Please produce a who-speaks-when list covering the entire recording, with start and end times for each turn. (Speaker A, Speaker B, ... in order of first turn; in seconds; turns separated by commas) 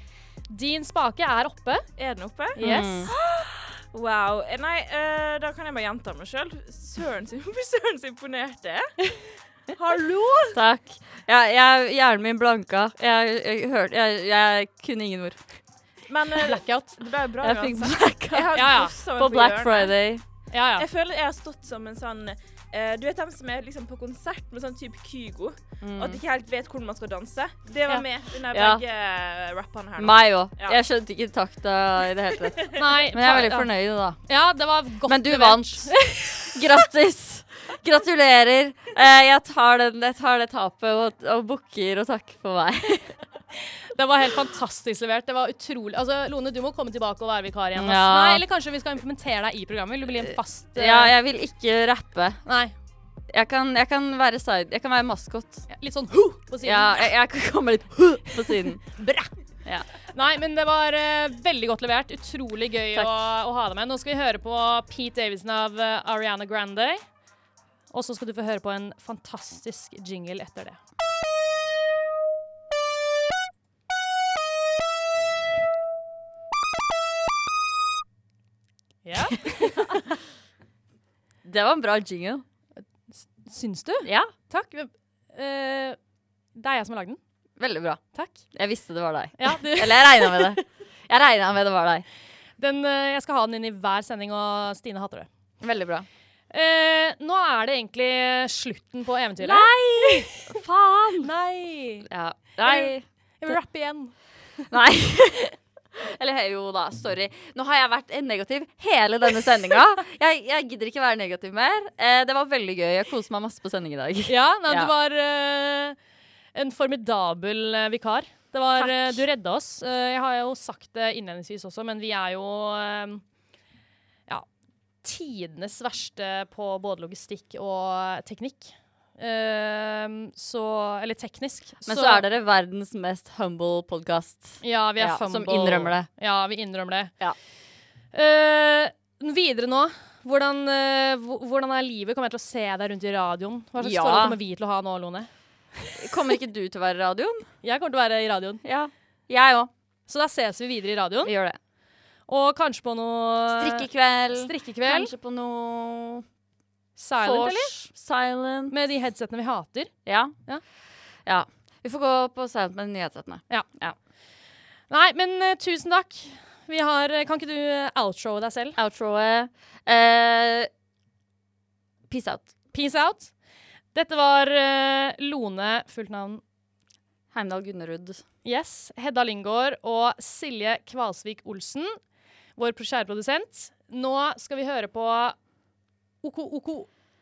Speaker A: 0.5-1.8, Speaker B: 2.0-9.1, Speaker A: 2.6-3.1, Speaker C: 2.6-3.1, Speaker B: 9.7-10.6, Speaker C: 10.5-15.4, Speaker B: 16.1-19.9, Speaker A: 16.4-17.0, Speaker C: 17.4-20.2, Speaker A: 18.6-18.9, Speaker A: 20.5-20.8, Speaker B: 20.8-30.8, Speaker C: 25.8-26.2, Speaker C: 28.5-28.8, Speaker C: 30.0-34.2, Speaker A: 32.8-33.7, Speaker A: 34.2-36.6, Speaker C: 35.0-43.2, Speaker A: 43.9-51.1, Speaker C: 47.8-48.4, Speaker C: 50.2-52.4, Speaker A: 52.5-52.7, Speaker C: 53.3-55.7, Speaker A: 55.7-57.1, Speaker C: 56.6-58.8, Speaker A: 58.5-59.3, Speaker A: 60.1-67.0, Speaker A: 67.9-70.8, Speaker A: 79.0-80.0, Speaker C: 79.3-80.1, Speaker C: 81.4-82.4, Speaker A: 83.1-86.0, Speaker C: 84.0-84.3, Speaker A: 86.5-87.2, Speaker C: 87.6-92.0, Speaker A: 88.1-88.4, Speaker A: 89.4-90.6, Speaker A: 92.6-95.3, Speaker C: 95.6-96.1, Speaker A: 96.5-100.6, Speaker C: 99.4-101.3, Speaker A: 101.2-102.1, Speaker C: 102.0-103.5, Speaker A: 102.6-104.1, Speaker C: 104.7-114.9, Speaker A: 114.3-116.0, Speaker A: 116.5-123.2, Speaker C: 118.8-119.2, Speaker A: 125.0-132.2, Speaker C: 131.8-136.1, Speaker A: 134.6-137.1, Speaker A: 138.1-146.1, Speaker C: 143.8-144.4, Speaker C: 146.0-147.5, Speaker A: 147.6-148.6, Speaker C: 148.6-149.7, Speaker A: 150.1-151.3, Speaker C: 151.2-151.6, Speaker A: 152.3-155.1, Speaker C: 153.5-156.2, Speaker A: 157.0-157.8, Speaker C: 157.2-158.7, Speaker A: 158.7-159.9, Speaker C: 160.1-160.3, Speaker C: 161.3-163.9, Speaker A: 164.9-168.8, Speaker C: 168.8-170.7, Speaker C: 172.1-172.5, Speaker A: 172.7-173.3, Speaker A: 173.9-176.4, Speaker C: 177.3-178.2, Speaker A: 178.4-182.0, Speaker A: 182.6-185.4, Speaker A: 186.2-186.9